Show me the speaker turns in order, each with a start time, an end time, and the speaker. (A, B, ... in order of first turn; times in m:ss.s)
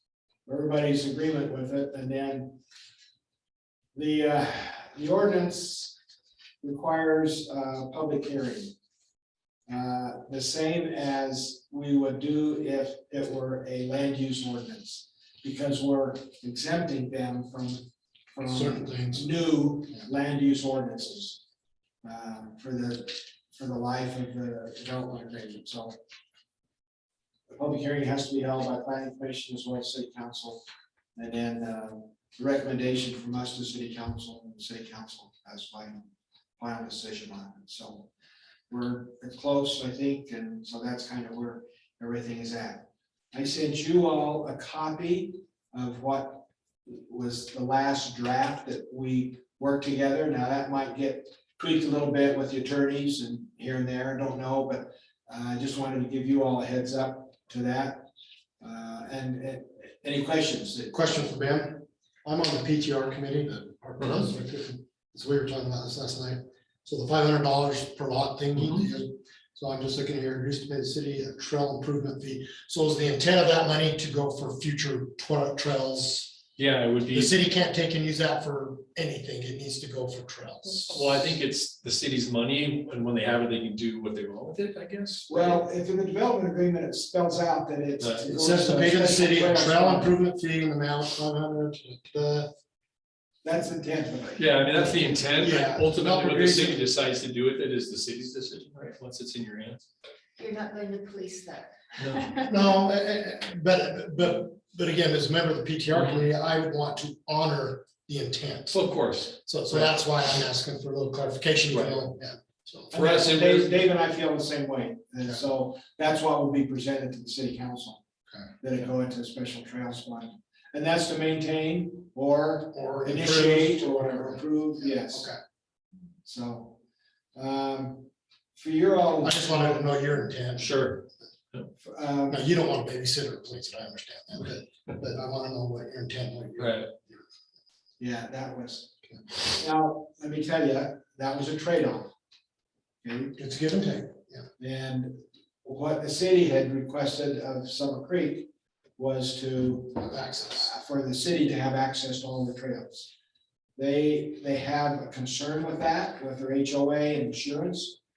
0:00.4-0:02.6 A
0:03.9-0:06.0 A
0:06.6-0:08.7 A
0:09.7-0:21.4 A
0:18.4-0:19.3 B
0:22.0-0:26.0 A
0:27.5-0:30.6 A
0:31.2-0:36.0 A
0:36.6-0:38.1 A
0:38.7-0:58.1 A
0:58.6-1:00.9 A
1:00.9-1:16.4 B
1:04.0-1:04.2 C
1:08.6-1:08.8 C
1:16.6-1:17.3 C
1:17.1-1:21.1 B
1:20.9-1:25.6 C
1:25.3-1:30.1 A
1:28.0-1:28.3 C
1:28.3-1:32.5 B
1:33.4-1:34.5 A
1:34.4-1:39.8 C
1:35.4-1:36.8 B
1:40.4-1:42.5 D
1:42.0-1:42.2 C
1:42.5-1:48.8 B
1:45.9-1:46.2 C
1:48.7-1:49.9 C
1:49.4-1:52.9 B
1:51.7-1:52.0 C
1:52.9-1:58.0 A
1:52.9-1:53.7 C
1:58.6-2:05.3 A
2:02.7-2:05.4 B
2:06.2-2:06.8 A
2:07.3-2:09.9 A
2:09.2-2:10.9 B
2:10.6-2:11.7 C
2:11.8-2:12.4 A
2:12.3-2:17.2 B
2:16.6-2:16.9 C
2:18.0-2:18.9 A
2:19.5-2:22.1 A
2:23.0-2:23.4 A
2:23.4-2:24.5 B
2:24.6-2:33.1 A
2:29.9-2:30.7 B
2:33.8-2:38.0 A